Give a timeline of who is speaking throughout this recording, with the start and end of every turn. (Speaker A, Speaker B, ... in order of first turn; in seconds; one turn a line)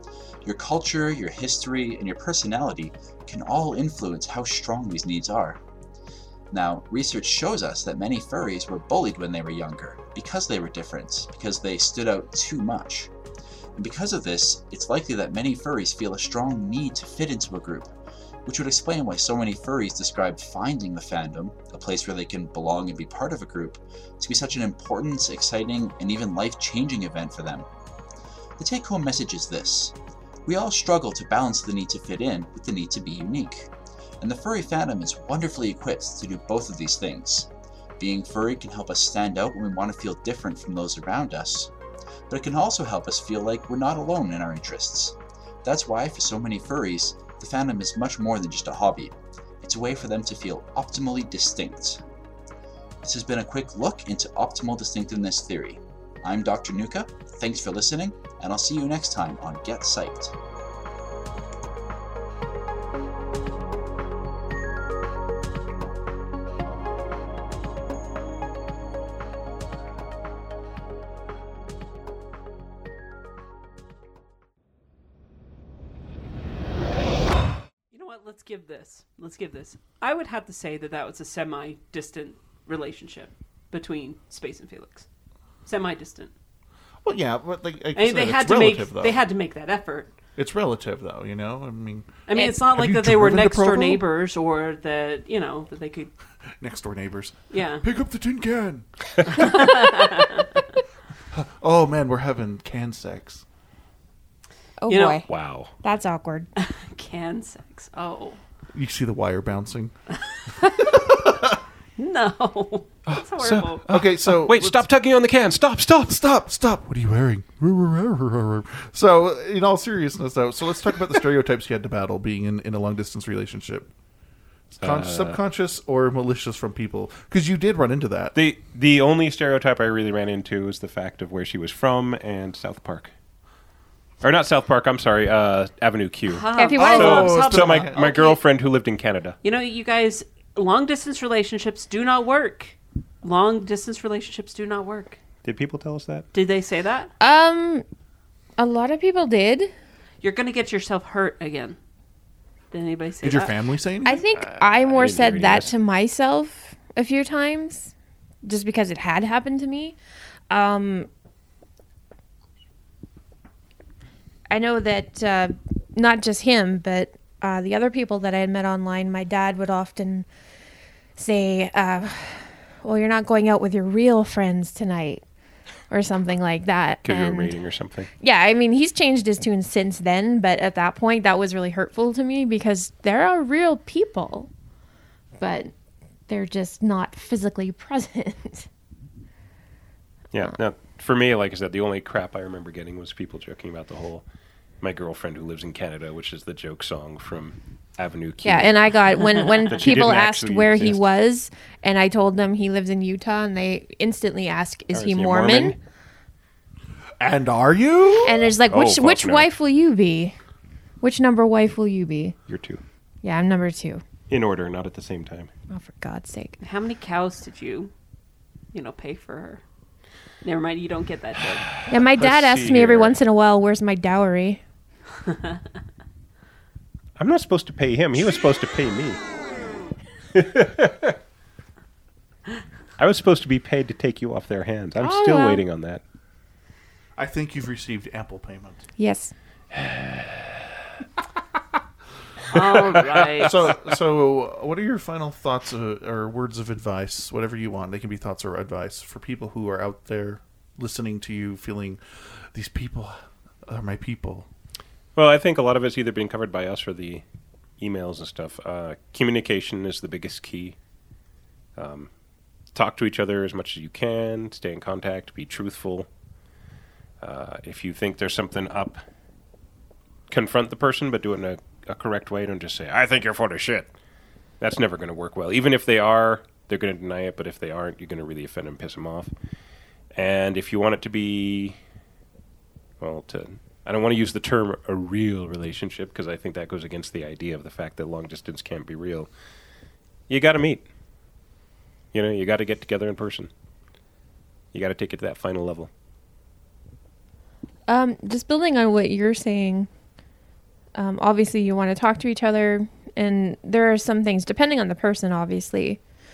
Speaker A: 0.4-5.6
Speaker A: 6.5-13.1
Speaker A: 13.8-17.9
Speaker A: 18.4-27.7
Speaker A: 28.6-29.9
Speaker A: 30.4-33.7
Speaker A: 34.2-41.7
Speaker A: 42.3-52.0
Speaker A: 53.0-60.3
Speaker B: 77.9-85.1
Speaker B: 85.7-86.3
Speaker C: 87.0-89.2
Speaker B: 87.9-90.1
Speaker C: 90.3-94.0
Speaker B: 92.3-96.1
Speaker C: 96.6-99.6
Speaker B: 97.5-97.8
Speaker B: 99.3-100.6
Speaker C: 101.3-103.4
Speaker D: 104.8-106.5
Speaker B: 104.9-105.2
Speaker E: 105.3-105.7
Speaker B: 106.6-108.4
Speaker C: 108.7-109.9
Speaker B: 110.3-110.9
Speaker C: 110.9-111.6
Speaker B: 112.0-113.8
Speaker E: 113.1-116.2
Speaker C: 113.9-114.9
Speaker C: 116.1-123.9
Speaker C: 124.8-128.3
Speaker E: 124.8-125.4
Speaker E: 128.3-133.1
Speaker E: 134.2-139.4
Speaker B: 136.3-138.3
Speaker D: 136.6-137.0
Speaker C: 136.7-138.0
Speaker B: 139.4-145.2
Speaker E: 145.4-146.3
Speaker B: 146.3-147.1
Speaker D: 147.2-147.8
Speaker D: 148.6-149.7
Speaker B: 150.2-151.8
Speaker B: 152.7-153.6
Speaker C: 153.2-154.3
Speaker D: 154.0-157.9
Speaker E: 154.4-155.7
Speaker D: 158.4-160.0
Speaker D: 160.5-161.1
Speaker D: 164.5-170.3
Speaker D: 171.2-175.2
Speaker D: 175.9-177.6
Speaker E: 177.0-178.1
Speaker D: 178.2-184.5
Speaker D: 185.4-185.7
Speaker D: 186.3-188.7
Speaker E: 190.3-194.2
Speaker E: 194.8-201.0
Speaker D: 198.4-205.8
Speaker E: 204.9-205.7
Speaker C: 207.2-208.5
Speaker D: 208.2-210.4
Speaker E: 208.7-209.5
Speaker D: 211.0-212.4
Speaker E: 212.5-212.8
Speaker D: 213.2-214.0
Speaker E: 214.3-215.5
Speaker D: 215.7-216.6
Speaker B: 216.6-217.9
Speaker B: 218.7-219.6
Speaker B: 220.4-221.7
Speaker D: 221.9-224.6
Speaker E: 221.9-223.2
Speaker E: 227.2-229.2
Speaker E: 230.3-231.2
Speaker E: 233.0-236.0
Speaker D: 235.0-235.6
Speaker C: 237.2-238.8
Speaker D: 239.0-239.3
Speaker E: 239.8-240.2
Speaker B: 242.5-243.6
Speaker C: 243.4-254.5
Speaker E: 255.1-257.2
Speaker E: 257.8-260.8
Speaker E: 261.8-262.1
Speaker E: 262.7-266.1
Speaker E: 267.2-269.0
Speaker E: 270.3-273.9
Speaker E: 274.6-279.3
Speaker E: 280.1-281.8
Speaker E: 283.0-289.3
Speaker E: 290.3-290.9
Speaker E: 292.1-293.5
Speaker E: 294.7-295.9
Speaker D: 297.9-299.9
Speaker D: 300.9-306.0